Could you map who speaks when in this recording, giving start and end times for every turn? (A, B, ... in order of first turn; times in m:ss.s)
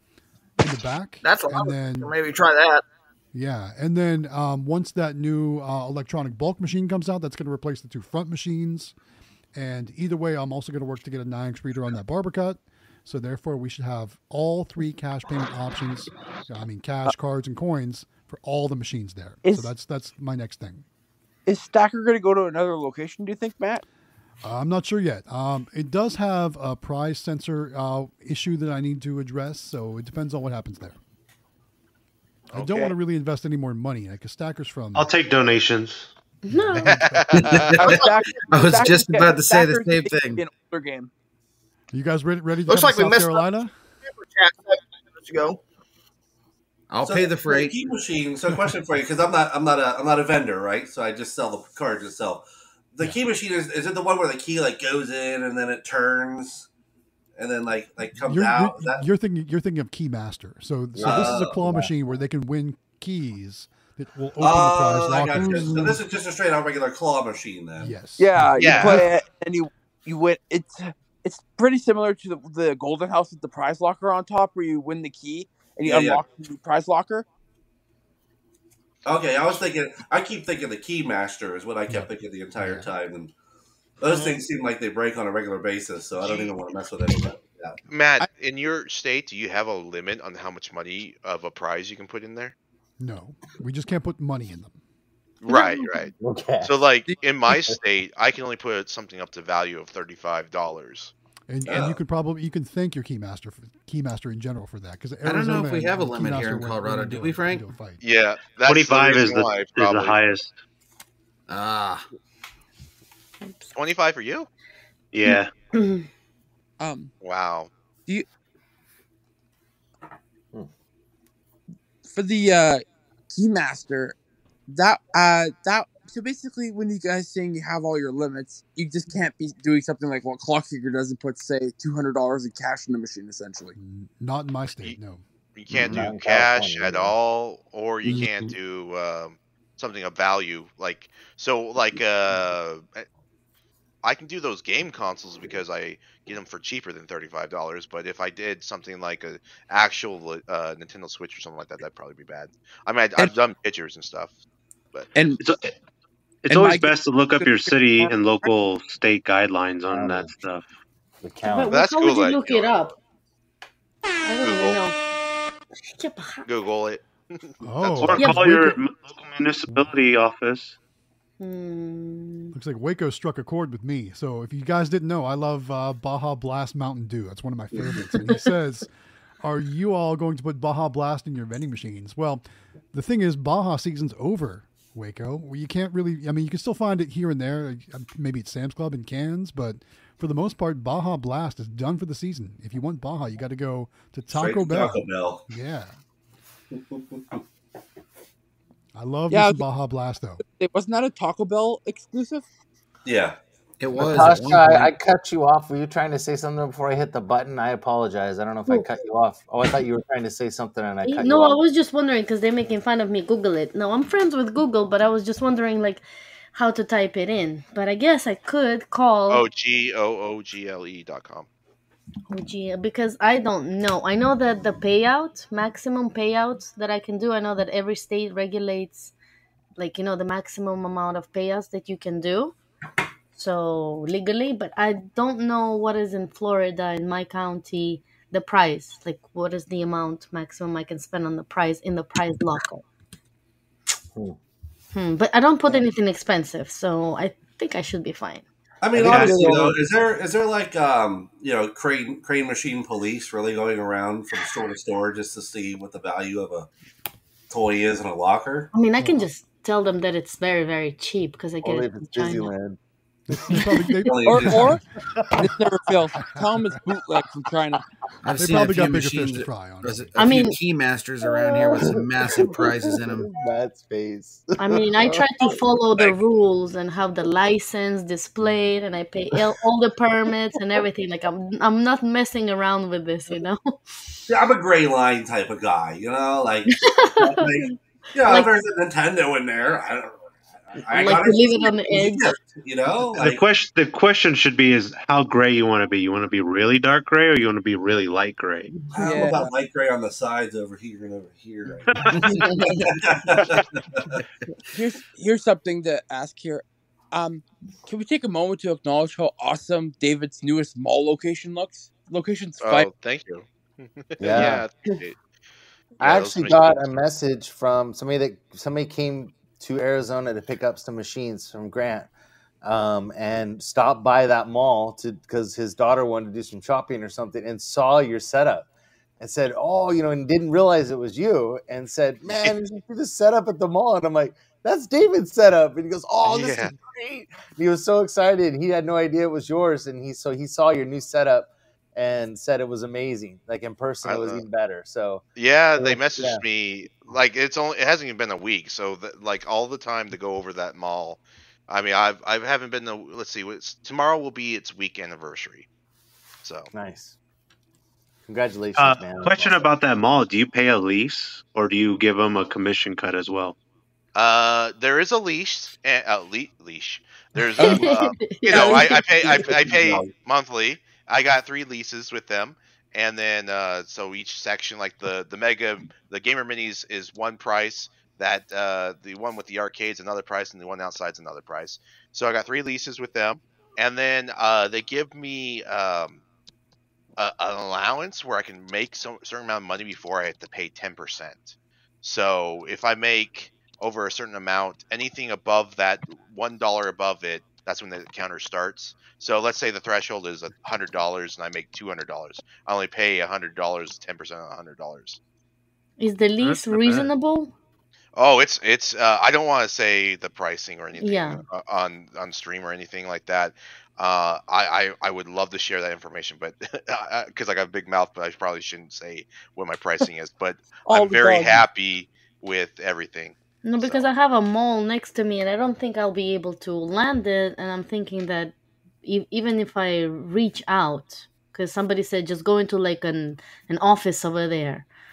0:00.6-0:02.1 A
0:01.2-0:02.8 B
0:03.3-0:08.9 A
0:09.6-0:20.8 A
0:19.4-0:19.7 C
0:21.5-0:23.8 C
0:24.4-0:31.0 A
0:32.5-0:35.1 A
0:32.5-0:33.0 D
0:35.0-0:36.1 E
0:36.4-0:37.0 F
0:36.5-0:37.8 A
0:36.9-0:37.8 D
0:37.3-0:40.4 G
0:37.8-0:41.1 C
0:41.9-0:43.7 A
0:42.7-0:43.5 B
0:44.1-0:45.6 B
0:46.9-0:47.8 G
0:47.0-0:56.7 H
0:57.4-0:59.0 H
0:58.2-1:06.0 A
1:01.0-1:01.9 I
1:01.0-1:01.7 H
1:04.4-1:08.0 H
1:05.4-1:05.7 C
1:07.8-1:09.1 A
1:08.2-1:17.2 C
1:08.6-1:09.1 D
1:15.8-1:16.2 H
1:19.0-1:23.3 H
1:21.9-1:22.9 A
1:24.0-1:27.8 H
1:26.2-1:26.5 D
1:27.9-1:32.6 D
1:33.0-1:34.8 A
1:35.4-1:41.1 D
1:36.2-1:36.7 I
1:41.5-1:48.0 A
1:41.6-1:42.0 H
1:45.2-1:47.7 G
1:48.0-1:50.2 D
1:48.6-1:50.6 E
1:51.5-1:52.1 G
1:53.4-1:53.7 F
1:53.7-1:54.5 D
1:55.1-1:55.5 E
1:55.3-1:56.1 F
1:56.8-1:57.1 C
1:57.2-1:57.7 D
2:02.0-2:04.2 C
2:04.7-2:13.8 C
2:13.8-2:15.2 A
2:15.6-2:23.1 D
2:15.7-2:16.1 G
2:15.8-2:17.2 I
2:18.1-2:18.4 G
2:24.0-2:34.3 D
2:35.2-2:35.4 C
2:35.4-2:35.7 E
2:36.5-2:40.7 E
2:36.5-2:38.5 C
2:39.9-2:40.3 I
2:41.2-2:41.8 I
2:41.5-2:43.0 F
2:41.7-2:43.0 D
2:44.2-2:45.0 F
2:44.4-2:44.8 D
2:45.9-2:46.5 F
2:46.4-2:47.6 D
2:47.6-2:48.8 A
2:47.8-2:50.8 E
2:48.2-2:48.5 F
2:51.4-2:52.6 F
2:52.5-2:58.9 A
2:59.4-3:15.9 A
3:14.3-3:15.4 H
3:16.8-3:17.2 H
3:19.0-3:20.4 A
3:19.3-3:19.6 C
3:20.4-3:22.5 C
3:23.1-3:23.4 H
3:23.8-3:24.9 G
3:24.0-3:31.6 I
3:31.0-3:36.0 F
3:36.5-3:39.4 F
3:39.3-3:41.5 D
3:42.3-3:49.1 F
3:49.8-3:52.6 F
3:53.4-4:02.9 F
4:04.9-4:08.4 F
4:08.8-4:16.7 H
4:08.9-4:09.8 I
4:09.0-4:09.5 E
4:17.5-4:18.7 H
4:18.7-4:22.5 F
4:21.6-4:22.8 I
4:23.3-4:24.8 A
4:23.5-4:24.0 F
4:24.0-4:24.8 H
4:24.3-4:24.8 C
4:25.4-4:27.8 C
4:26.2-4:26.5 A
4:28.2-4:33.3 G
4:28.4-4:30.2 A
4:30.2-4:30.6 F
4:31.7-4:35.5 I
4:34.6-4:43.7 F
4:44.3-4:53.4 H
4:46.7-4:48.5 F
4:50.9-4:52.3 F
4:53.1-4:58.7 E
4:58.9-4:59.5 I
4:58.9-5:04.2 H
4:59.0-4:59.4 C
5:01.9-5:02.3 E
5:04.7-5:12.9 C
5:12.6-5:15.2 D
5:14.2-5:14.7 I
5:16.0-5:16.9 D
5:16.0-5:22.1 I
5:22.6-5:28.7 I
5:29.2-5:45.2 I
5:36.2-5:36.7 D
5:44.0-5:44.4 D
5:45.4-5:55.7 D
5:45.8-5:46.4 I
5:56.4-5:56.7 D
5:56.7-5:57.2 I
5:58.3-5:59.7 I
5:58.8-6:03.6 E
6:04.2-6:26.2 D
6:07.6-6:09.5 C
6:07.6-6:09.0 F
6:09.4-6:10.1 H
6:27.2-6:45.2 D
6:46.0-6:47.5 F
6:46.4-6:47.1 E
6:48.2-7:04.0 D
6:51.0-6:51.4 F
7:00.9-7:01.6 C
7:03.6-7:14.9 F